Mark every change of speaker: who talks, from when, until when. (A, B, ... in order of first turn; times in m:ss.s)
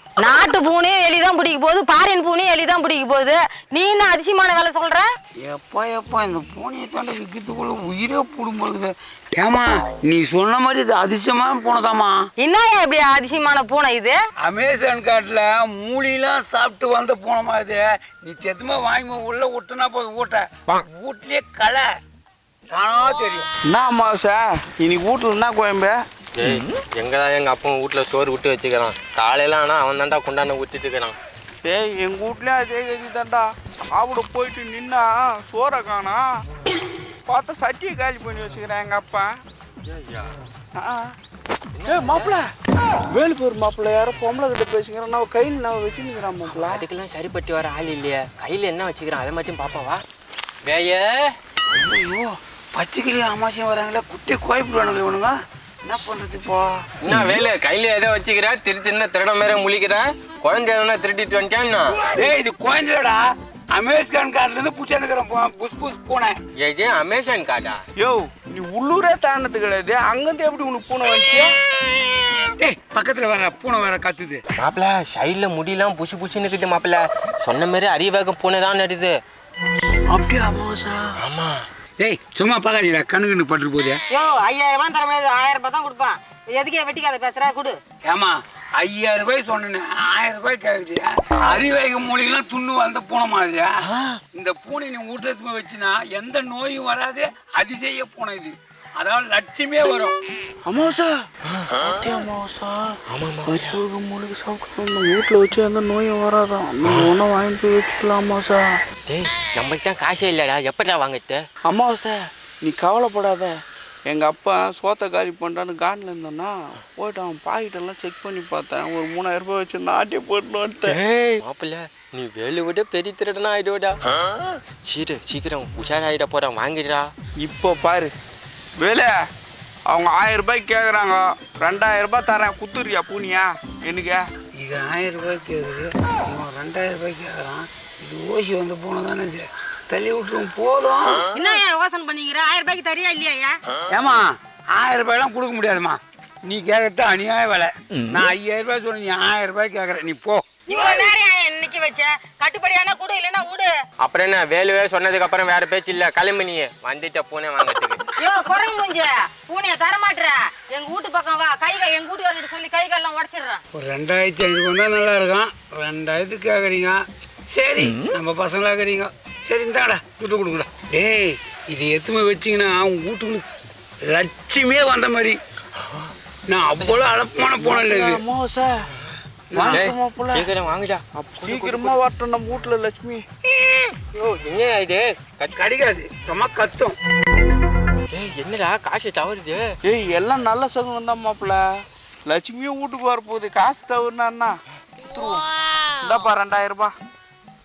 0:00.2-0:05.1 A
0:05.4-0:12.3 B
0:12.4-0:14.2 A
0:14.4-0:21.9 B
0:22.7-0:23.4 B
0:23.6-0:25.9 C
0:26.4-0:31.2 D
0:31.6-0:36.2 C
0:37.3-0:39.3 C
0:40.0-0:40.3 D
0:40.8-0:41.1 C
0:41.8-0:42.4 D
0:41.8-0:42.5 C
0:43.1-0:46.8 C
0:46.4-0:50.0 D
0:50.6-0:51.4 D
0:51.7-0:56.8 B
0:57.0-1:02.0 D
1:02.1-1:06.4 B
1:06.6-1:07.8 D
1:08.0-1:11.6 C
1:12.6-1:14.4 B
1:14.6-1:19.2 D
1:20.1-1:21.0 C
1:21.2-1:21.6 D
1:22.0-1:24.0 B
1:24.1-1:27.8 A
1:28.0-1:33.8 B
1:33.9-1:34.1 D
1:34.3-1:40.2 B
1:40.6-1:41.1 C
1:41.5-1:41.9 D
1:41.8-1:48.7 C
1:43.1-1:43.8 D
1:49.0-1:51.4 D
1:51.6-2:01.0 C
2:00.8-2:04.0 D
2:04.5-2:07.1 D
2:07.4-2:08.1 C
2:08.8-2:09.1 C
2:09.9-2:14.2 C
2:14.6-2:21.2 B
2:21.3-2:23.6 A
2:23.9-2:30.4 B
2:30.7-2:33.7 A
2:34.0-2:38.0 D
2:38.2-2:43.6 A
2:43.7-2:53.4 B
2:54.1-2:55.4 B
2:56.5-2:58.2 B
2:57.6-2:58.8 C
2:59.5-2:59.9 B
2:59.5-3:00.5 C
2:59.7-3:02.0 D
3:01.1-3:03.2 C
3:03.7-3:05.6 D
3:05.6-3:07.0 B
3:08.1-3:09.7 D
3:09.9-3:11.6 C
3:12.3-3:14.5 C
3:15.1-3:15.4 C
3:16.0-3:16.9 C